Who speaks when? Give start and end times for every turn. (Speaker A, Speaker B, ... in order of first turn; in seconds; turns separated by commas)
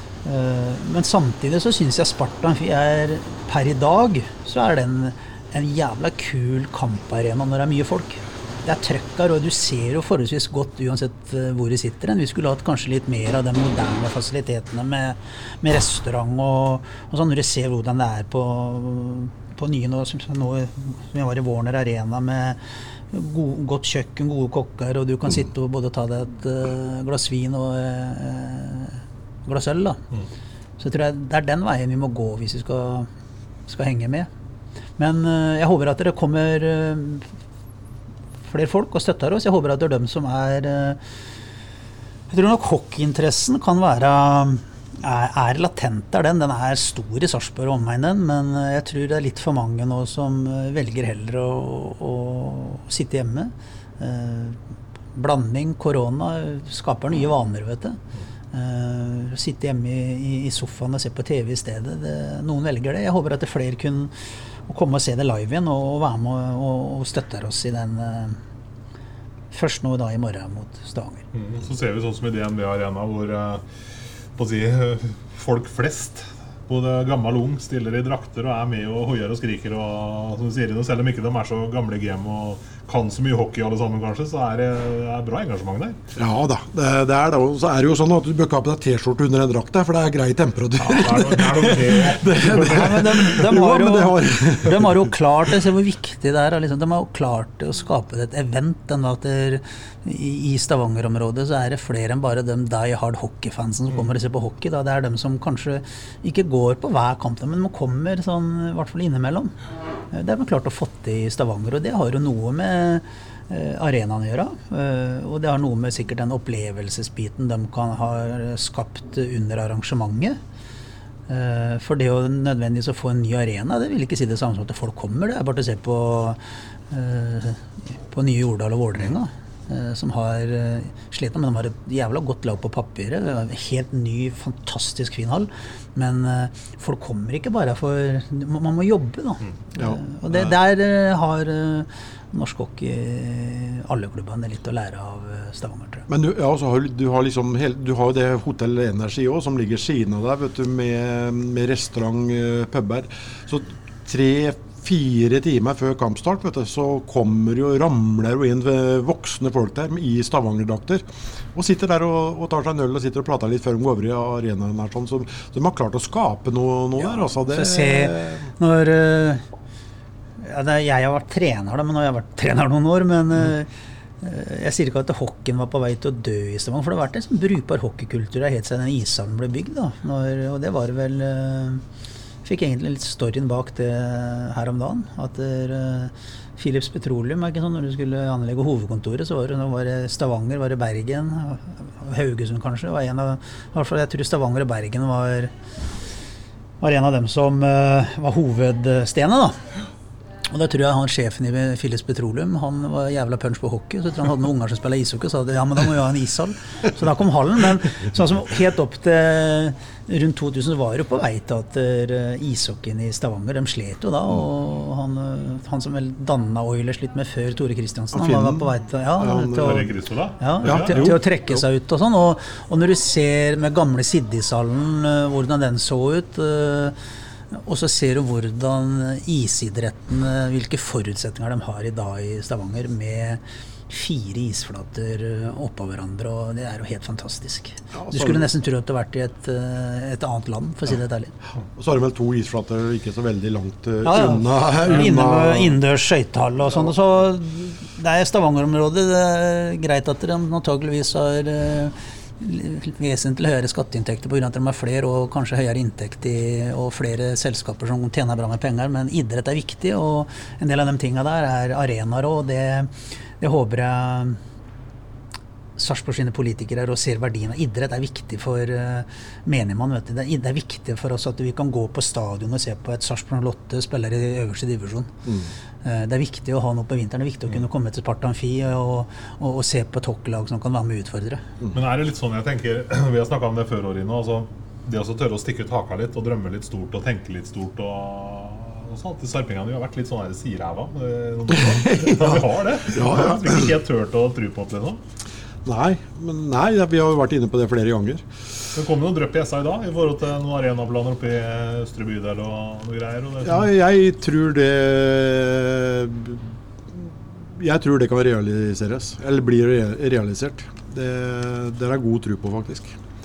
Speaker A: 0.2-30.0, Speaker A: 30.8-33.1, Speaker A: 33.7-34.3, Speaker A: 35.0-37.3, Speaker A: 38.5-41.0, Speaker A: 42.3-54.6, Speaker A: 55.1-58.0, Speaker A: 58.5-64.1, Speaker A: 64.7-68.4, Speaker A: 69.5-71.2, Speaker B: 71.3-73.6, Speaker B: 74.4-86.0, Speaker C: 86.2-95.1, Speaker B: 90.8-93.3, Speaker A: 92.5-109.5, Speaker A: 110.1-120.4, Speaker A: 121.3-146.1, Speaker C: 139.8-140.6, Speaker C: 146.1-168.5, Speaker A: 167.1-169.4, Speaker A: 170.4-173.7, Speaker A: 174.2-181.8, Speaker A: 182.4-195.5, Speaker A: 196.8-199.6, Speaker A: 200.5-227.0, Speaker C: 218.1-219.9, Speaker B: 219.6-221.2, Speaker C: 220.7-221.6, Speaker A: 227.5-241.3, Speaker C: 237.9-238.5, Speaker C: 241.8-245.8, Speaker A: 244.0-264.4, Speaker A: 265.8-275.1, Speaker A: 275.8-281.4, Speaker B: 281.7-295.0, Speaker C: 291.5-293.8, Speaker C: 295.6-298.2, Speaker B: 298.7-303.7, Speaker C: 303.4-313.0